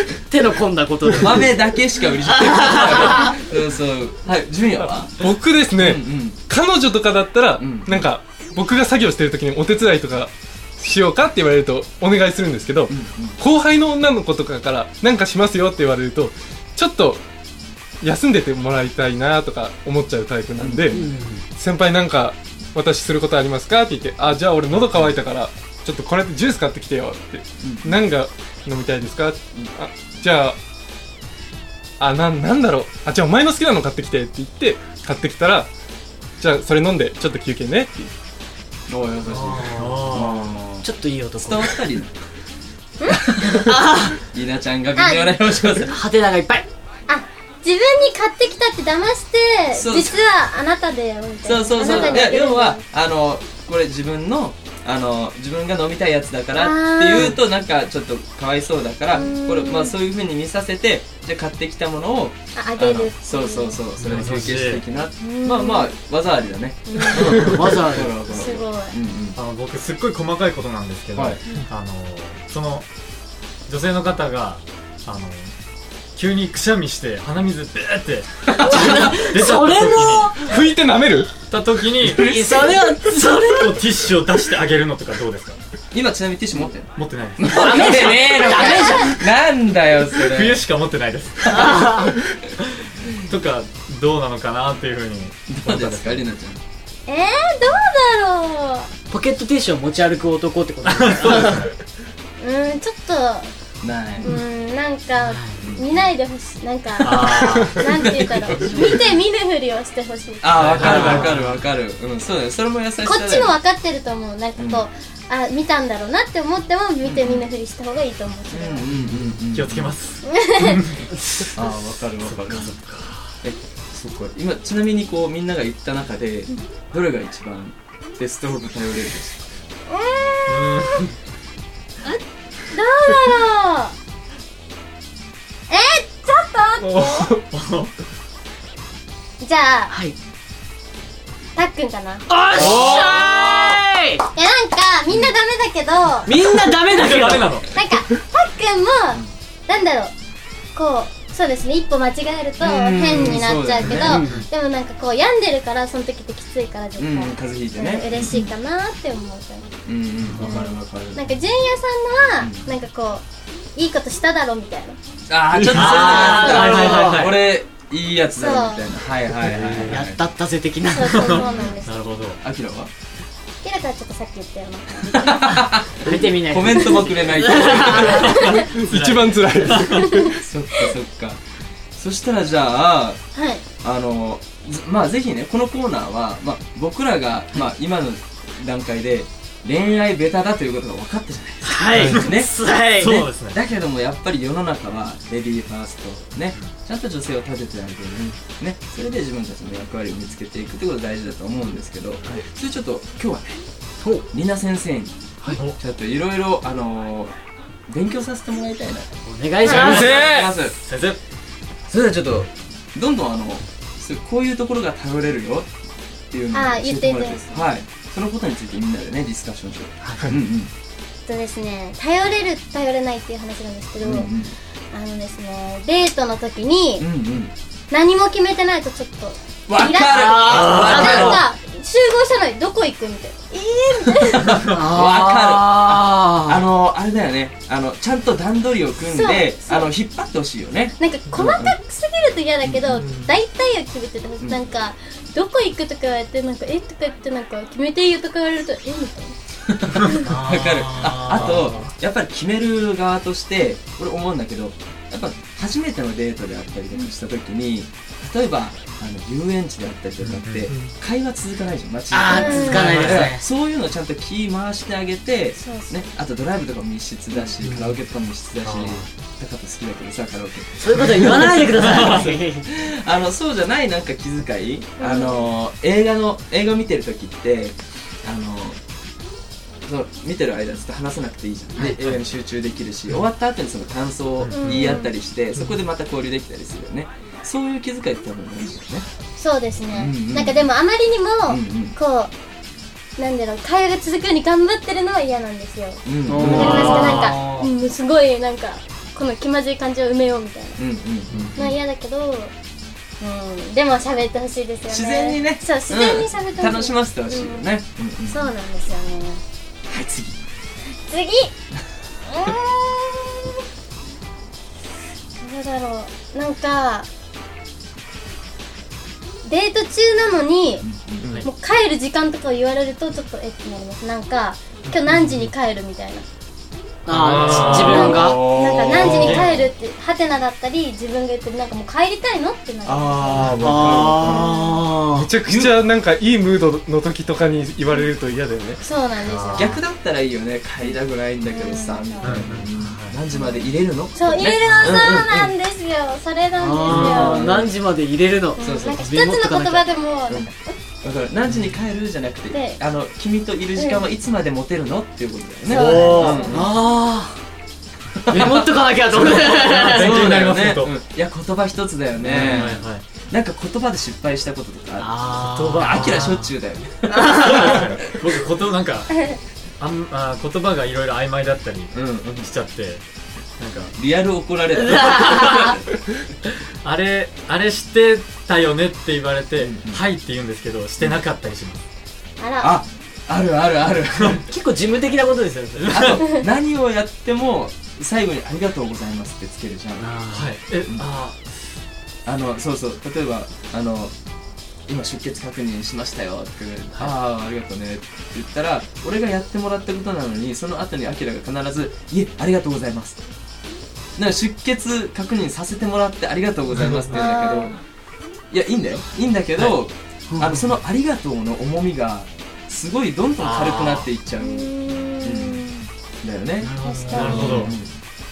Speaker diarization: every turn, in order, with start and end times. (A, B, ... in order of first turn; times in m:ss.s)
0:00.3-0:01.7 A
0:01.2-0:05.2 B
0:02.2-0:03.3 A
0:05.1-0:17.2 C
0:05.8-0:06.4 B
0:07.6-0:08.0 B
0:12.9-0:13.4 B
0:18.0-0:30.6 C
0:20.6-0:20.9 B
0:20.9-0:21.4 A
0:27.6-0:28.0 B
0:32.0-0:35.7 C
0:36.4-0:38.1 C
0:38.9-0:42.1 B
0:39.3-0:41.8 A
0:39.8-0:40.2 D
0:43.3-0:43.6 B
0:43.6-0:44.1 A
0:44.2-0:46.0 B
0:45.0-0:45.4 E
0:45.9-0:46.6 A
0:47.1-0:52.8 E
0:49.8-0:50.2 B
0:51.4-1:09.4 B
0:56.5-0:57.4 E
0:59.1-0:59.9 E
1:02.5-1:03.8 E
1:04.0-1:04.8 D
1:05.2-1:05.9 E
1:06.9-1:07.6 E
1:07.3-1:08.2 A
1:08.3-1:09.0 E
1:09.3-1:12.9 D
1:13.7-1:15.5 D
1:16.1-1:20.3 D
1:18.6-1:19.1 B
1:18.6-1:20.4 A
1:20.4-1:21.4 C
1:21.4-1:22.4 D
1:22.0-1:23.8 A
1:23.6-1:25.6 D
1:25.9-1:30.6 B
1:27.0-1:28.0 D
1:27.5-1:29.2 A
1:28.4-1:29.1 E
1:30.1-1:31.6 D
1:31.5-1:32.2 A
1:32.6-1:36.2 D
1:35.5-1:36.6 B
1:37.1-1:38.9 E
1:39.1-1:41.7 A
1:40.8-1:41.6 D
1:42.4-1:43.5 E
1:43.8-1:44.3 B
1:44.2-1:51.2 E
1:45.2-1:45.6 A
1:45.6-1:46.1 B
1:47.0-1:47.4 D
1:47.1-1:47.7 A
1:48.0-1:49.0 B
1:50.4-1:53.6 B
1:50.5-1:51.5 D
1:50.8-1:51.5 A
1:53.0-1:58.8 E
1:54.6-1:54.8 B
1:57.0-1:57.4 B
1:58.5-2:00.0 B
1:59.1-2:01.1 D
2:00.2-2:00.8 E
2:01.5-2:02.8 B
2:02.5-2:03.2 D
2:03.4-2:09.5 B
2:09.9-2:11.1 E
2:10.5-2:11.1 D
2:12.0-2:13.9 E
2:15.7-2:17.3 E
2:16.8-2:17.4 C
2:17.5-2:17.9 D
2:19.4-2:19.9 E
2:19.9-2:20.2 A
2:21.6-2:22.3 E
2:22.3-2:24.2 A
2:22.5-2:23.8 B
2:22.5-2:22.8 D
2:22.9-2:23.2 C
2:24.3-2:26.4 E
2:25.1-2:25.3 B
2:26.2-2:27.5 A
2:26.9-2:27.7 D
2:27.7-2:30.1 E
2:30.7-2:39.7 E
2:32.6-2:34.3 B
2:34.0-2:34.4 A
2:37.0-2:38.5 B
2:39.8-2:41.2 B
2:40.3-2:40.5 D
2:40.4-2:43.2 E
2:42.4-2:42.6 B
2:43.8-2:45.0 E
2:45.3-2:50.2 B
2:45.7-2:47.3 A
2:45.7-2:47.2 D
2:48.4-2:48.9 E
2:49.4-2:50.0 D
2:49.9-2:51.4 A
2:50.9-2:52.1 E
2:51.0-2:52.4 D
2:51.3-2:51.7 B
2:52.4-2:52.9 B
2:53.6-2:55.6 E
2:55.2-2:58.6 B
2:56.0-2:58.4 A
2:56.7-2:57.2 E
2:58.1-2:58.7 E
2:58.4-3:00.0 D
2:58.6-3:00.4 C
3:00.0-3:00.2 E
3:00.4-3:01.4 B
3:02.0-3:03.2 B
3:03.3-3:03.6 E
3:03.8-3:23.6 B
3:11.6-3:13.2 A
3:12.9-3:13.6 D
3:24.3-3:27.3 B
3:27.9-3:29.1 B
3:29.2-3:30.2 A
3:29.6-3:30.0 E
3:29.6-3:30.8 B
3:29.9-3:31.2 D
3:31.9-3:35.7 B
3:36.3-3:40.7 B
3:36.5-3:37.6 E
3:41.3-3:44.3 E
3:44.0-3:44.5 B
3:44.9-3:47.0 E
3:47.0-3:47.5 B
3:47.9-3:54.6 E
3:49.7-3:51.4 B
3:50.1-3:51.4 A
3:54.4-4:01.7 B
3:54.6-3:56.6 A
3:59.0-3:59.9 E
4:01.0-4:09.3 E
4:02.6-4:02.9 B
4:09.7-4:38.8 B
4:10.0-4:10.3 E
4:10.2-4:11.7 A
4:11.5-4:11.8 D
4:20.2-4:20.7 D
4:20.7-4:20.9 C
4:22.1-4:23.4 A
4:22.3-4:22.9 E
4:22.8-4:23.3 D
4:25.6-4:26.0 E
4:28.6-4:29.1 D
4:30.8-4:32.7 A
4:35.0-4:35.4 E
4:39.8-4:49.1 B
4:41.8-4:42.1 D
4:44.4-4:44.9 D
4:44.5-4:45.1 E
4:49.4-4:52.3 E
4:49.9-4:50.7 B
4:51.5-4:52.0 B
4:53.2-5:00.8 E
4:56.0-4:57.2 B
4:56.3-4:57.7 A
4:56.4-4:56.8 D
5:00.8-5:01.7 B
5:01.6-5:02.5 E
5:03.2-5:07.7 E
5:04.9-5:08.5 B
5:08.3-5:09.4 E
5:09.9-5:10.4 B
5:11.0-5:11.5 E
5:12.3-5:13.5 E
5:15.4-5:17.1 E
5:19.4-5:20.8 E
5:20.8-5:21.4 B
5:21.4-5:26.2 E
5:27.0-5:28.4 A
5:27.1-5:28.4 C
5:27.5-5:29.5 B
5:27.7-5:33.6 E
5:28.9-5:29.4 C
5:29.0-5:29.7 D
5:32.8-5:34.4 B
5:33.4-5:34.1 C
5:33.6-5:35.3 A
5:34.2-5:34.8 E
5:35.1-5:38.8 C
5:35.4-5:35.7 B
5:38.8-5:39.8 E
5:39.2-5:39.6 D
5:39.6-5:45.5 B
5:41.4-5:42.4 E
5:42.2-5:43.2 D
5:43.3-5:47.4 E
5:44.6-5:45.0 D
5:46.6-5:49.9 A
5:46.8-5:47.4 D
5:46.9-5:47.7 B
5:48.6-5:50.8 E
5:48.6-5:49.0 B
5:51.0-5:56.7 B
5:52.5-5:52.8 E
5:53.8-5:54.0 E
5:55.6-5:56.6 E
5:55.7-5:56.3 D
5:55.7-5:57.4 A
5:58.3-5:58.7 B
5:58.3-6:00.3 A
5:58.3-6:00.9 D
5:59.2-6:07.9 B
6:02.2-6:03.0 D
6:05.0-6:06.5 A
6:05.7-6:06.3 D
6:07.1-6:07.6 A
6:07.4-6:13.0 D
6:11.9-6:12.5 B
6:13.6-6:13.9 D
6:13.9-6:15.8 B
6:14.9-6:15.7 A
6:16.8-6:21.8 D
6:19.6-6:20.0 B
6:22.4-6:22.8 E
6:22.6-6:24.5 B
6:24.5-6:26.1 A
6:25.9-6:30.1 B
6:30.0-6:30.5 A
6:30.3-6:31.4 D
6:32.2-6:34.1 B
6:34.9-6:43.2 B
6:44.2-6:47.8 B
6:47.1-6:47.7 E
6:48.5-6:55.7 B
6:50.3-6:50.8 A
6:53.4-6:54.0 D
6:54.4-6:55.8 E
6:56.2-6:57.9 B
6:56.6-6:57.7 A
6:56.8-6:57.5 E
6:57.2-6:57.6 C
6:57.4-6:57.7 D